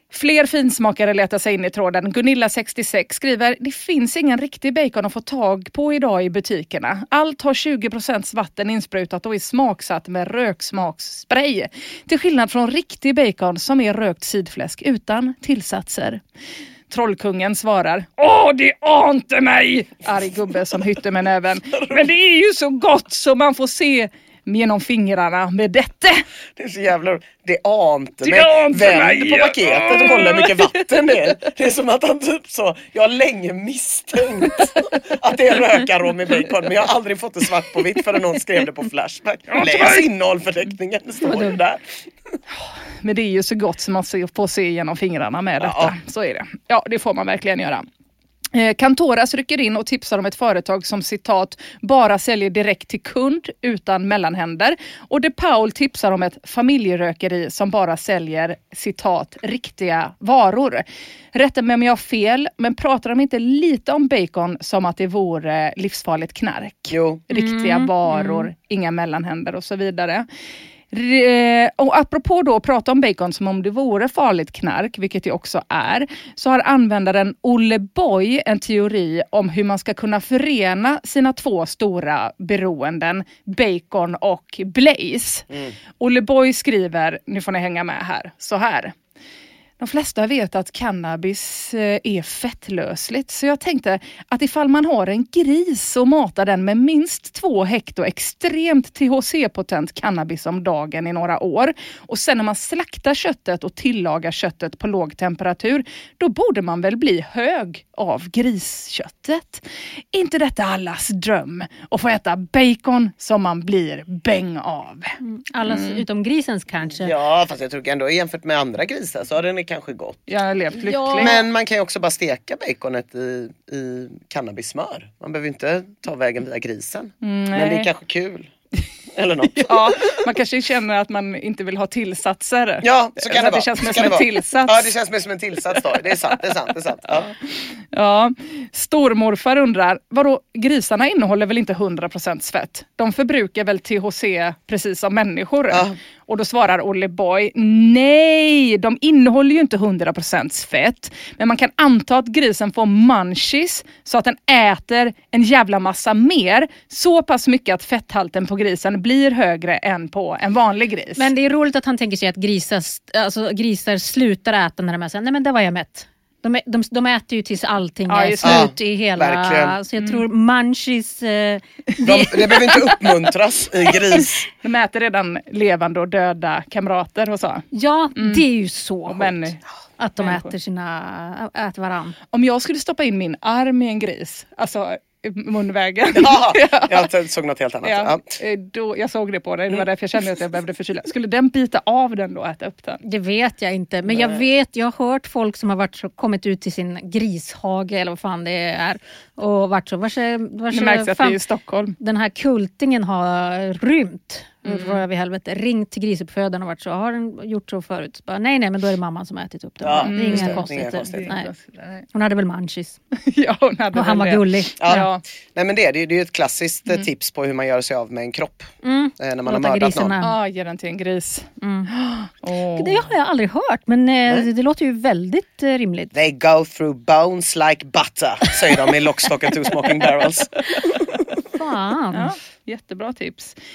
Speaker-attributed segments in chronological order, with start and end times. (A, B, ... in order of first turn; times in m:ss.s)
0:00.1-0:16.2 A
0:16.9-0:26.2 A
0:21.8-0:22.1 B
0:26.6-0:42.4 B
0:28.2-0:31.3 A
0:39.5-0:40.1 A
0:42.5-0:47.8 A
0:45.6-0:45.9 B
0:48.5-1:10.3 A
1:06.9-1:07.2 B
1:07.3-1:08.5 C
1:10.9-1:25.5 A
1:26.0-1:29.0 A
1:29.8-1:56.0 A
1:55.2-1:57.1 C
1:57.0-2:00.3 B
2:00.3-2:01.3 A
2:00.8-2:01.4 C
2:01.2-2:08.5 B
2:07.2-2:07.9 A
2:09.2-2:10.2 B
2:09.5-2:14.9 A
2:12.8-2:17.3 B
2:17.1-2:41.3 A
2:25.7-2:26.0 B
2:41.2-2:52.4 C
2:48.1-2:48.7 A
2:48.4-2:49.8 B
2:50.0-2:50.2 A
2:52.0-2:52.9 A
2:52.0-2:54.4 B
2:54.6-2:58.4 A
2:57.7-3:02.2 C
2:59.1-2:59.6 A
3:00.2-3:00.5 A
3:02.3-3:07.1 A
3:06.1-3:08.2 B
3:07.8-3:13.0 A
3:13.0-3:21.4 C
3:14.1-3:14.4 B
3:20.7-3:22.0 A
3:22.0-3:31.5 C
3:24.6-3:25.0 A
3:29.8-3:31.3 B
3:30.0-3:32.1 A
3:32.1-3:33.0 C
3:33.3-3:35.2 A
3:34.0-3:35.1 C
3:34.8-3:40.2 B
3:38.8-3:40.3 C
3:40.2-3:43.1 A
3:41.6-3:41.9 C
3:42.8-3:46.1 C
3:46.1-3:51.0 B
3:51.5-3:52.3 C
3:52.1-3:53.6 A